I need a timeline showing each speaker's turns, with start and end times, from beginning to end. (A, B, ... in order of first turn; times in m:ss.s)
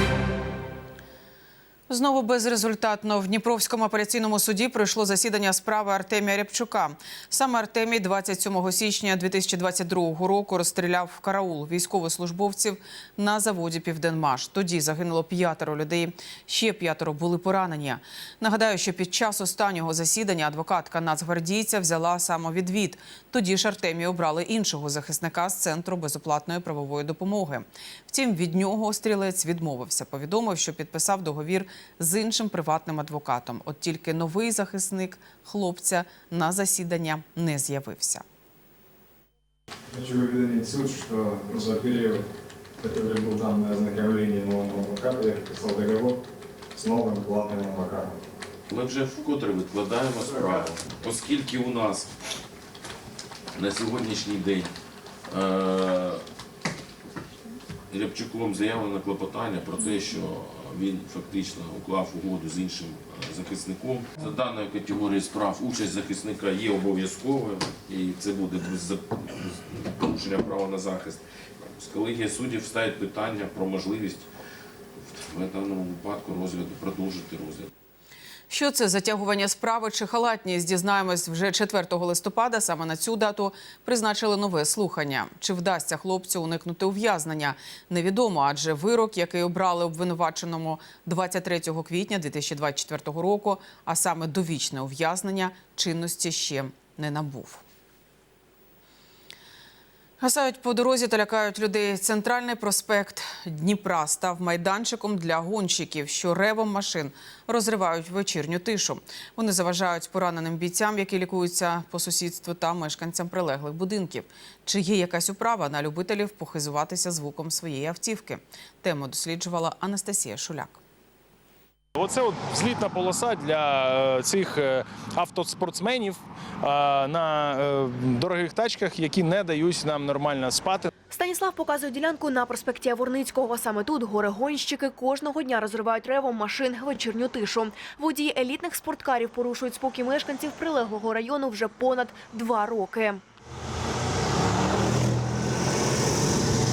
0:01.9-0:38.2 A
0:39.9-0:42.2 B
0:42.8-0:46.2 B
0:46.7-0:48.2 B
0:48.7-0:52.1 C
0:53.5-0:54.7 C
0:55.3-0:56.2 C
0:57.9-1:14.3 C
1:15.0-1:17.7 C
1:18.5-1:37.6 A
1:40.2-2:00.8 A
2:02.0-2:10.9 D
2:11.1-2:23.2 E